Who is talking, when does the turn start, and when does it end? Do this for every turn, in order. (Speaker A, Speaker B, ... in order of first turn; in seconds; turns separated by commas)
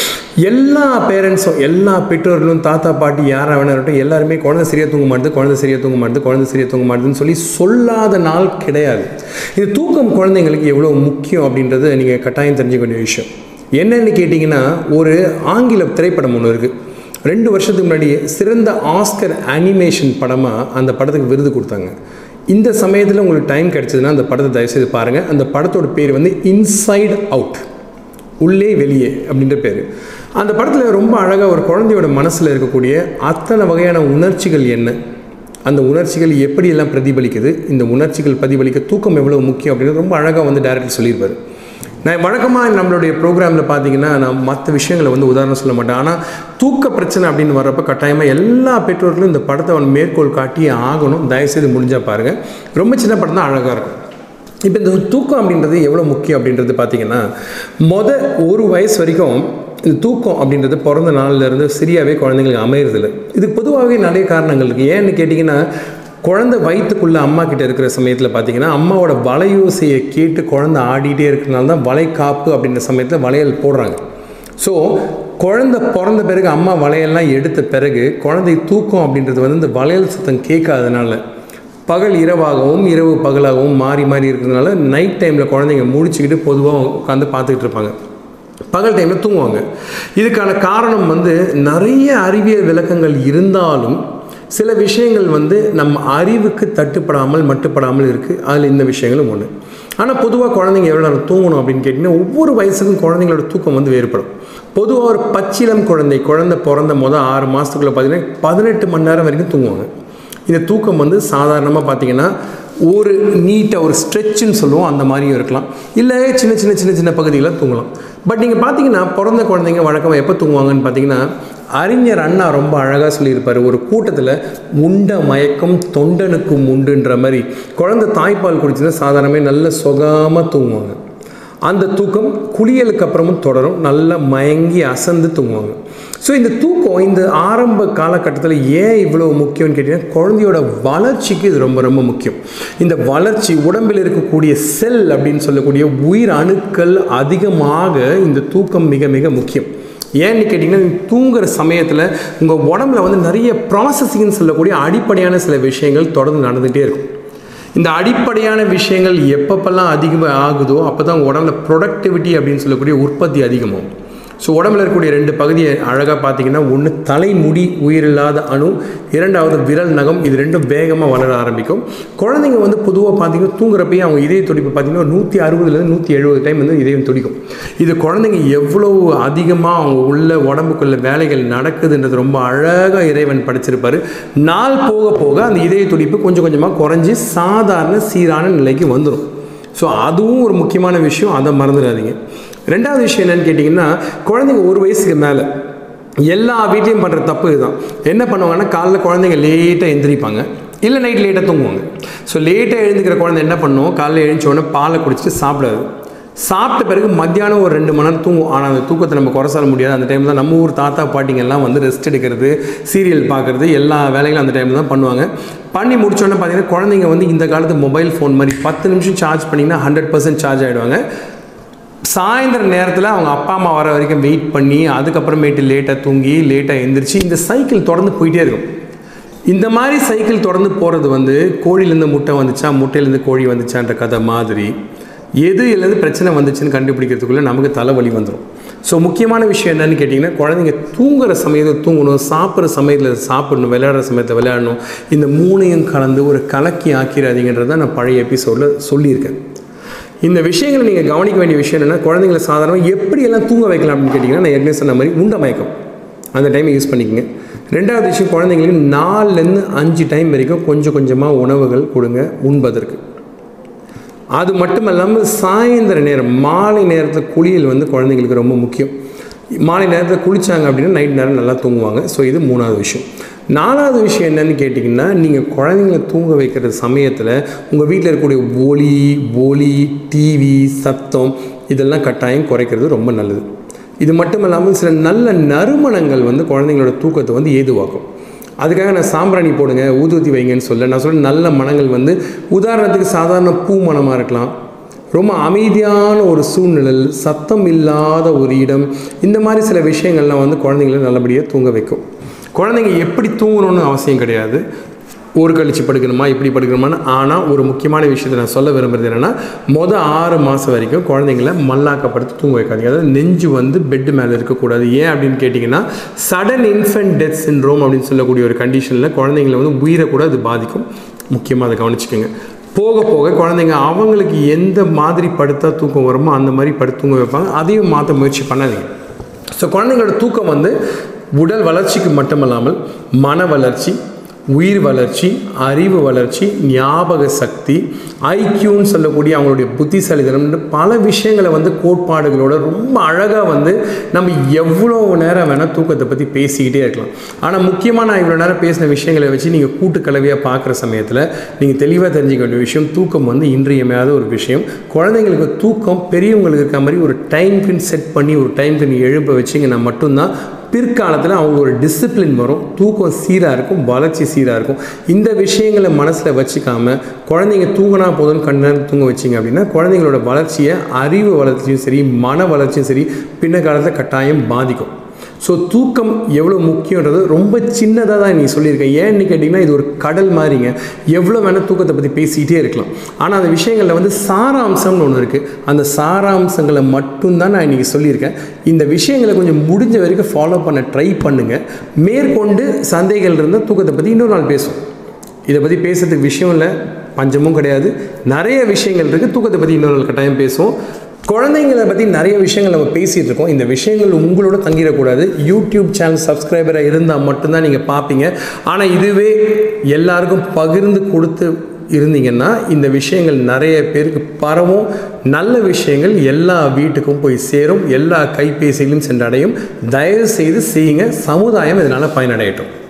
Speaker A: 0.4-16.7, Speaker A: 17.3-21.9, Speaker A: 22.5-27.6, Speaker A: 28.4-35.0, Speaker A: 35.6-41.4, Speaker A: 42.0-54.0, Speaker A: 54.6-57.3, Speaker A: 57.8-65.6, Speaker A: 66.2-74.0, Speaker A: 74.6-81.2, Speaker A: 81.9-87.9, Speaker A: 88.7-89.6, Speaker A: 90.2-94.0, Speaker A: 94.5-109.9, Speaker A: 110.5-112.3, Speaker A: 112.8-131.0, Speaker A: 131.6-149.7, Speaker A: 150.2-157.1, Speaker A: 157.7-163.9, Speaker A: 164.4-192.2, Speaker A: 192.7-195.5, Speaker A: 196.3-205.8, Speaker A: 206.4-221.0, Speaker A: 222.1-228.7, Speaker A: 229.5-234.7, Speaker A: 235.4-249.4, Speaker A: 250.2-255.7, Speaker A: 256.3-263.0, Speaker A: 264.3-268.9, Speaker A: 269.6-283.4, Speaker A: 284.0-288.0, Speaker A: 288.6-294.5, Speaker A: 295.1-302.0, Speaker A: 302.5-304.6, Speaker A: 305.4-328.9, Speaker A: 329.5-330.8, Speaker A: 331.3-334.0, Speaker A: 334.5-394.8, Speaker A: 395.5-400.7, Speaker A: 401.3-422.7